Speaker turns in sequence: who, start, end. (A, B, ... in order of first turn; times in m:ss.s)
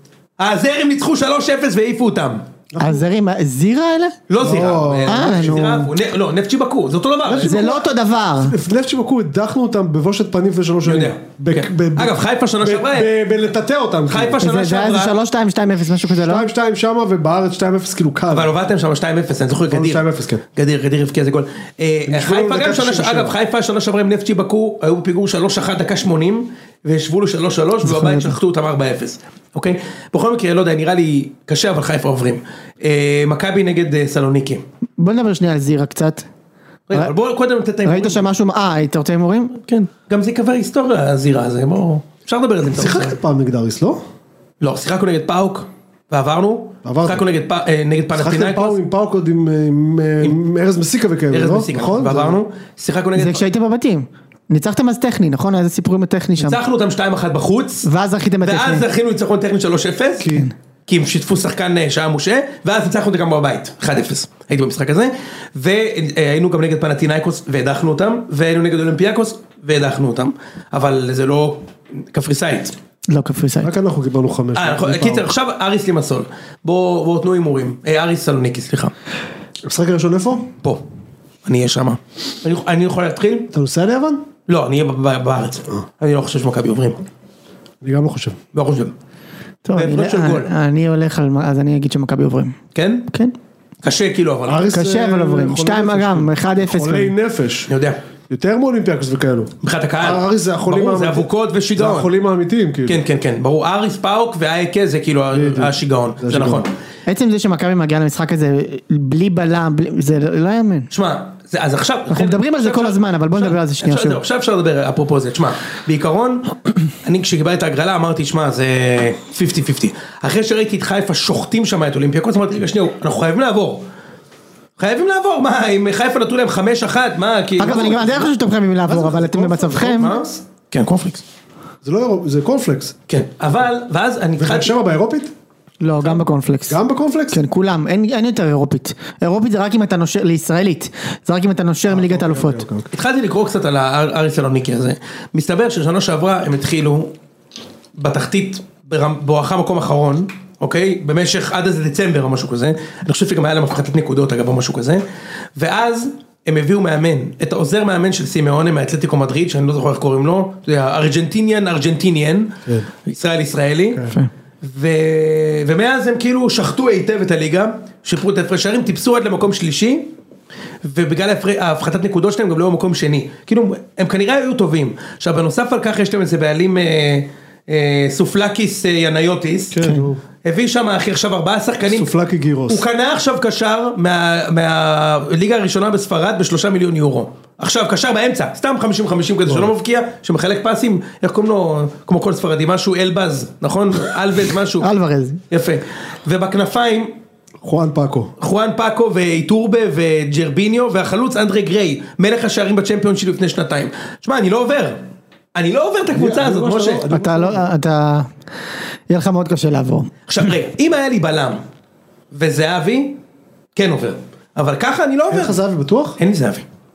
0:00.4-0:02.4 A
0:02.7-0:03.0 B
0:02.8-0:05.9 C
0:04.3-0:07.7 A
0:04.4-0:05.8 B
0:07.2-0:07.9 B
0:07.4-0:08.5 C
0:08.4-0:14.4 B
0:10.8-0:13.1 A
0:14.1-0:15.2 A
0:14.4-0:16.4 C
0:16.2-0:18.5 B
0:18.3-0:34.6 A
0:19.7-0:20.4 B
0:22.1-0:23.3 B
0:27.8-0:28.3 C
0:35.0-0:36.2 C
0:36.9-0:38.2 A
0:37.8-0:39.6 C
0:39.6-0:43.2 A
0:42.7-0:44.0 B
0:44.6-0:48.8 A
0:46.8-0:47.2 B
0:48.1-0:52.4 B
0:51.3-0:53.4 A
0:53.1-0:56.6 C
0:56.4-0:57.9 A
0:57.8-0:58.8 C
0:58.4-1:00.3 A
1:00.2-1:00.5 B
1:00.3-1:00.5 C
1:00.9-1:12.7 A
1:13.1-1:13.7 C
1:13.6-1:15.3 B
1:14.5-1:18.9 A
1:19.6-1:20.5 B
1:21.4-1:23.5 A
1:23.5-1:24.2 B
1:24.5-1:27.0 A
1:27.8-1:28.4 B
1:28.5-1:28.9 A
1:29.6-1:32.6 C
1:29.7-1:30.5 A
1:32.7-1:33.1 A
1:33.8-1:34.6 A
1:34.4-1:37.7 B
1:34.7-1:37.1 C
1:37.7-1:38.0 A
1:38.3-1:43.0 B
1:39.6-1:42.1 A
1:42.8-1:46.7 A
1:45.3-1:46.6 B
1:47.1-1:50.9 C
1:50.9-1:56.5 A
1:52.1-1:54.2 C
1:57.0-2:03.8 A
2:04.8-2:08.2 A
2:07.6-2:10.1 C
2:07.6-2:08.3 B
2:08.8-2:10.4 B
2:09.9-2:11.2 A
2:11.8-2:12.9 B
2:13.1-2:14.7 A
2:14.4-2:15.3 B
2:15.8-2:16.8 C
2:16.7-2:17.4 B
2:17.3-2:22.6 C
2:21.9-2:22.9 B
2:22.9-2:27.1 A
2:28.0-2:35.0 A
2:35.6-2:44.0 A
2:43.9-2:44.2 B
2:44.6-2:50.1 A
2:50.8-2:59.8 A
2:59.7-3:00.2 B
3:00.4-3:02.1 A
3:01.8-3:02.8 B
3:02.7-3:14.9 A
3:09.4-3:09.7 B
3:14.8-3:15.4 C
3:15.5-3:17.1 A
3:17.6-3:18.3 B
3:18.4-3:25.0 A
3:25.5-3:27.0 A
3:26.1-3:27.6 B
3:27.1-3:28.3 C
3:29.1-3:30.1 C
3:30.3-3:31.6 A
3:32.3-3:33.2 A
3:33.7-3:35.6 A
3:35.3-3:36.2 B
3:36.2-3:36.6 A